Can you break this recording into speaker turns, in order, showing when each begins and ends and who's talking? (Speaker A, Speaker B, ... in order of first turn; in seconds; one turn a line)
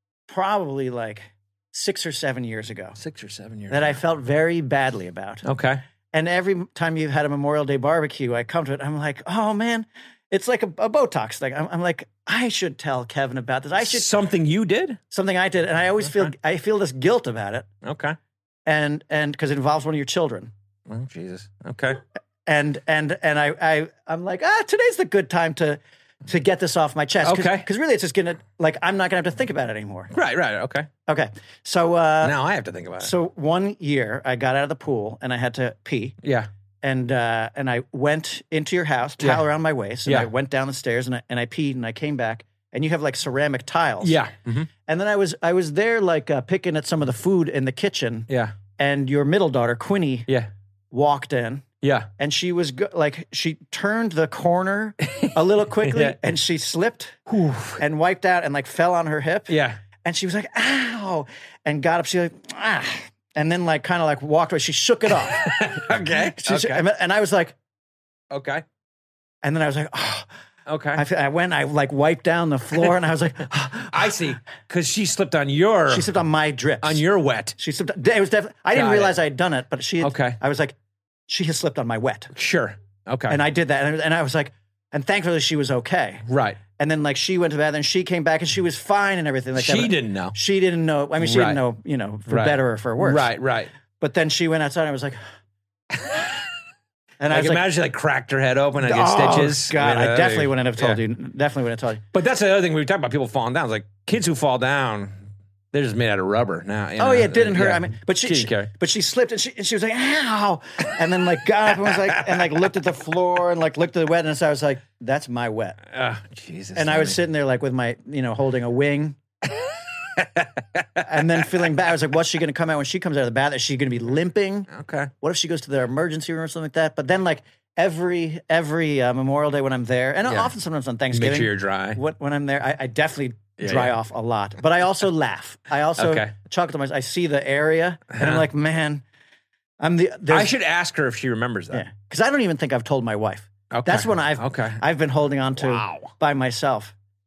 Speaker A: 0.3-3.0
Speaker B: 3.0-4.0
Speaker A: 3.7-5.4
Speaker B: 5.4-5.8
Speaker A: 6.1-14.1
Speaker B: 13.8-15.0
Speaker A: 15.1-17.7
Speaker B: 17.8-18.2
Speaker A: 18.6-20.5
Speaker B: 20.9-22.0
Speaker A: 22.4-30.1
Speaker B: 27.2-27.7
Speaker B: 30.1-30.9
Speaker A: 31.1-32.4
Speaker B: 32.2-33.1
Speaker A: 33.0-36.1
Speaker B: 36.2-36.5
Speaker A: 36.8-44.2
Speaker B: 39.2-39.5
Speaker B: 44.0-44.7
Speaker A: 44.9-50.3
Speaker B: 48.3-48.5
Speaker A: 50.9-51.6
Speaker B: 51.8-52.1
Speaker A: 52.2-57.2
Speaker B: 55.1-56.2
Speaker B: 57.3-57.8
Speaker A: 57.8-67.5
Speaker B: 59.5-59.8
Speaker B: 65.2-66.8
Speaker B: 68.3-68.6
Speaker A: 69.4-70.3
Speaker B: 70.7-71.0
Speaker A: 70.9-74.2
Speaker B: 73.9-76.1
Speaker A: 75.9-77.0
Speaker B: 76.8-77.5
Speaker A: 77.5-80.7
Speaker B: 78.7-79.2
Speaker B: 80.0-80.4
Speaker A: 81.3-82.3
Speaker B: 82.3-83.4
Speaker A: 83.3-86.2
Speaker B: 86.2-86.6
Speaker A: 86.8-93.3
Speaker B: 89.5-90.3
Speaker B: 91.2-91.6
Speaker B: 92.3-93.7
Speaker A: 94.0-95.2
Speaker A: 97.2-97.6
Speaker B: 97.3-101.0
Speaker A: 98.8-102.0
Speaker B: 102.1-105.2
Speaker B: 105.7-108.7
Speaker A: 107.0-115.8
Speaker B: 112.1-112.4
Speaker B: 115.9-117.2
Speaker A: 116.7-119.2
Speaker B: 120.1-120.8
Speaker A: 121.0-139.0
Speaker B: 124.7-125.1
Speaker B: 130.2-130.5
Speaker B: 131.1-132.0
Speaker B: 133.6-134.0
Speaker B: 135.9-136.3
Speaker B: 138.1-138.4
Speaker A: 139.8-140.5
Speaker B: 140.3-141.8
Speaker A: 141.7-146.9
Speaker B: 143.7-144.8
Speaker B: 145.6-146.1